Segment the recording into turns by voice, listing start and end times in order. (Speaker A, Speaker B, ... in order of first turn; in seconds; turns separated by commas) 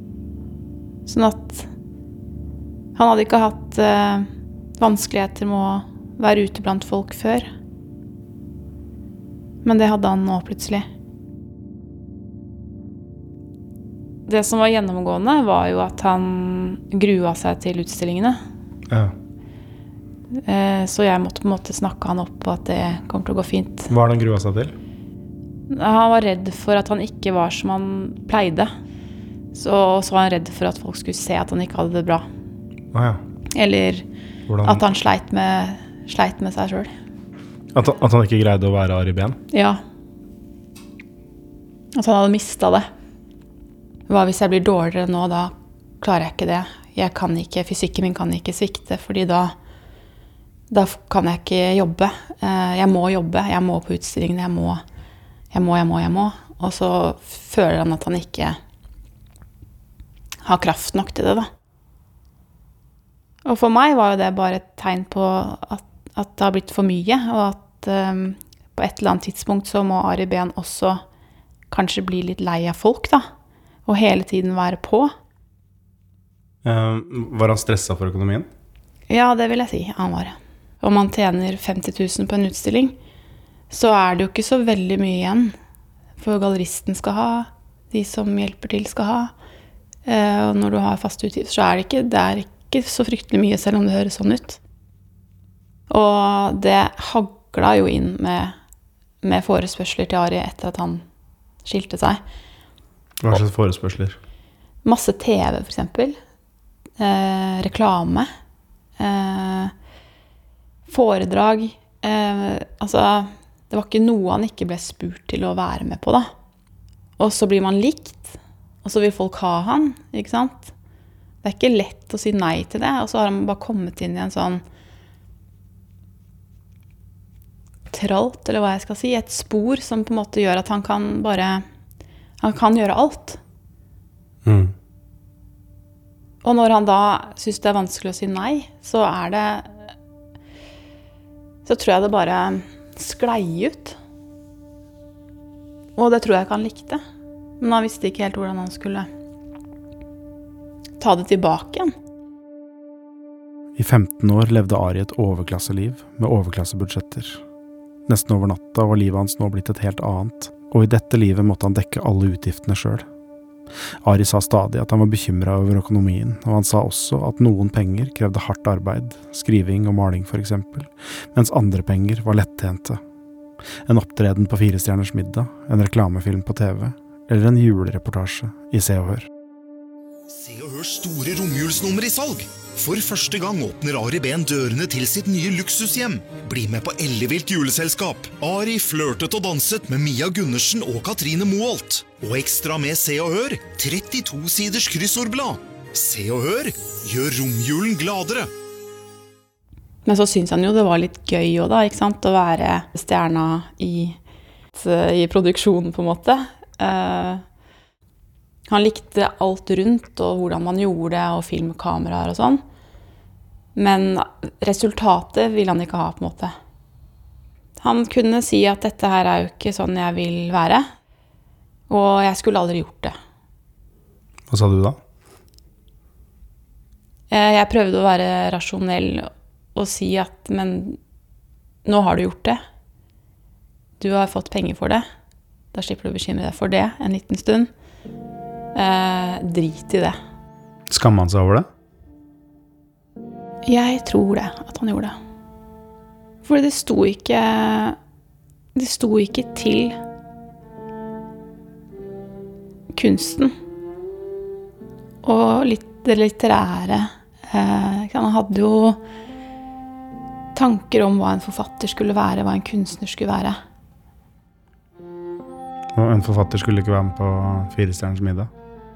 Speaker A: 1.1-1.7, Speaker A: 3.0-4.3, Speaker A: 4.8-7.5, Speaker A: 9.6-10.8, Speaker A: 14.3-18.4, Speaker A: 20.4-23.9, Speaker B: 23.9-24.8, Speaker A: 25.7-28.7, Speaker A: 29.5-32.2, Speaker B: 32.9-33.2, Speaker A: 33.5-34.0, Speaker B: 34.5-34.9, Speaker A: 34.6-36.9, Speaker B: 37.7-39.4, Speaker A: 39.5-39.8, Speaker A: 42.0-42.9, Speaker A: 44.1-49.5, Speaker A: 50.7-54.8, Speaker A: 55.5-58.6, Speaker A: 60.4-61.5, Speaker A: 63.5-71.0, Speaker A: 71.7-73.3, Speaker A: 73.9-75.1, Speaker B: 76.6-78.5, Speaker A: 79.1-83.0, Speaker A: 83.7-85.5, Speaker A: 86.2-89.3, Speaker A: 90.1-94.6, Speaker A: 95.9-98.5, Speaker A: 99.2-101.0, Speaker A: 101.6-102.2, Speaker B: 103.2-104.2, Speaker A: 104.8-106.2, Speaker A: 107.0-108.3, Speaker A: 109.0-109.7, Speaker A: 110.9-116.3, Speaker A: 117.2-120.7, Speaker A: 121.4-124.6, Speaker A: 127.9-131.6, Speaker A: 132.4-133.4, Speaker B: 134.4-134.7, Speaker A: 136.4-139.8, Speaker A: 141.7-144.0, Speaker A: 146.0-147.0, Speaker A: 147.6-149.1, Speaker A: 151.0-151.9, Speaker B: 153.8-157.4, Speaker B: 158.1-163.1, Speaker B: 164.0-173.0, Speaker B: 173.9-179.3, Speaker C: 180.3-198.5, Speaker A: 200.1-204.2, Speaker A: 204.7-207.4, Speaker A: 208.7-212.6, Speaker A: 213.8-216.5, Speaker A: 217.8-220.8, Speaker A: 221.9-223.2, Speaker B: 224.5-225.0, Speaker A: 227.3-231.0, Speaker A: 231.8-232.6, Speaker A: 234.0-235.0, Speaker A: 235.7-237.7, Speaker A: 238.8-240.2, Speaker B: 240.9-241.7, Speaker A: 243.7-245.2, Speaker A: 246.4-248.0, Speaker A: 248.7-250.0, Speaker A: 252.9-253.5, Speaker A: 255.2-259.0, Speaker A: 260.5-263.6, Speaker B: 265.9-268.5